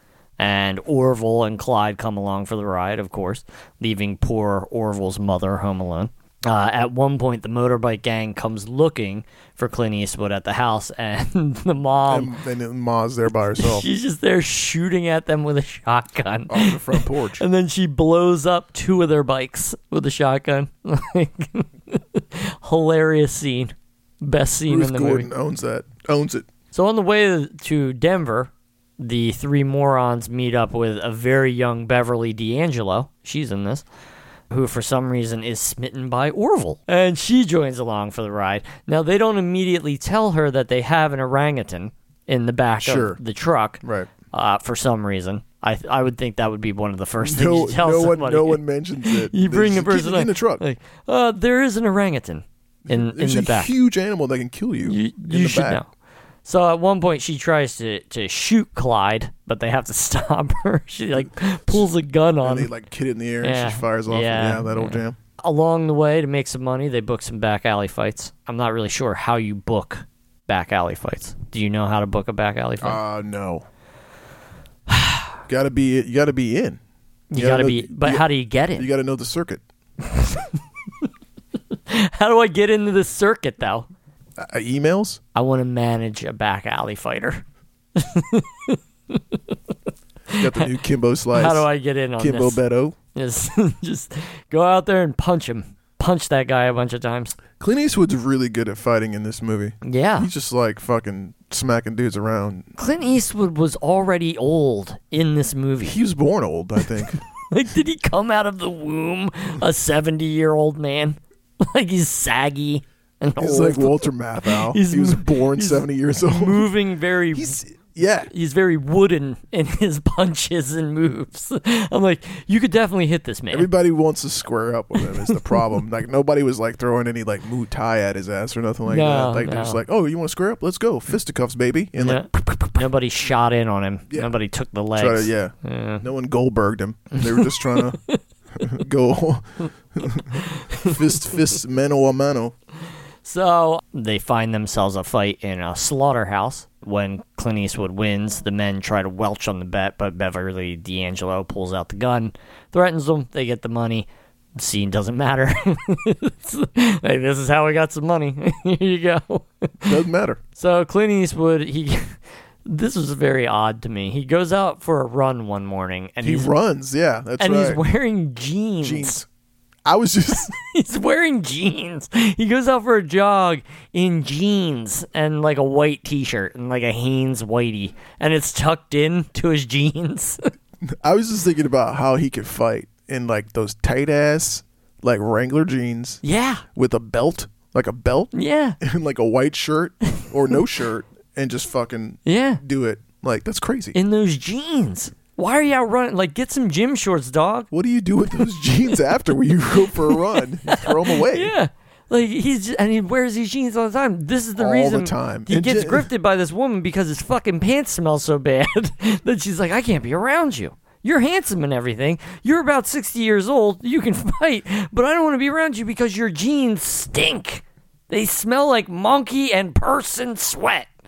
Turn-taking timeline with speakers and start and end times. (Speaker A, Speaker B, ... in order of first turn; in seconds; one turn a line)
Speaker A: 0.4-12.3
Speaker B: 12.1-13.8
Speaker A: 13.6-25.3
Speaker B: 16.5-17.4
Speaker B: 24.7-26.5
Speaker A: 26.7-33.8
Speaker A: 34.5-53.7
Speaker B: 42.8-43.2
Speaker B: 43.8-44.1
Speaker B: 47.2-50.6
Speaker B: 52.9-55.8
Speaker A: 54.9-55.9
Speaker A: 56.4-62.7
Speaker B: 61.2-61.9
Speaker B: 62.4-65.2
Speaker A: 63.4-73.0
Speaker B: 72.8-73.6
Speaker A: 74.9-75.3
Speaker B: 75.5-76.8
Speaker A: 77.3-78.9
Speaker B: 77.3-79.6
Speaker A: 80.1-80.5
Speaker A: 81.9-83.9
Speaker B: 84.4-85.2
Speaker A: 85.3-87.4
Speaker A: 88.0-89.4
Speaker A: 90.3-90.7
Speaker B: 90.3-91.7
Speaker A: 91.3-92.6
Speaker B: 92.2-93.0
Speaker A: 93.1-97.4
Speaker B: 97.6-102.7
Speaker A: 99.8-100.3
Speaker A: 102.8-106.0
Speaker B: 105.8-107.2
Speaker A: 107.0-117.6
Speaker B: 113.4-116.7
Speaker B: 117.3-118.3
Speaker A: 118.3-123.7
Speaker B: 123.5-132.8
Speaker A: 125.0-125.5
Speaker A: 128.8-129.8
Speaker A: 132.0-136.0
Speaker B: 134.1-134.3
Speaker B: 134.9-138.0
Speaker A: 137.1-138.2
Speaker B: 138.6-142.5
Speaker A: 140.3-141.0
Speaker A: 143.2-160.0
Speaker B: 159.8-160.4
Speaker A: 160.6-166.5
Speaker B: 166.2-167.8
Speaker A: 167.4-169.2
Speaker B: 168.8-169.2
Speaker B: 169.8-170.5
Speaker A: 170.4-180.5
Speaker B: 180.9-186.2
Speaker A: 186.2-186.6
Speaker B: 186.7-193.9
Speaker A: 188.3-188.8
Speaker A: 192.2-192.6
Speaker A: 193.9-197.7
Speaker B: 197.7-201.5
Speaker A: 199.9-220.9
Speaker B: 204.6-206.1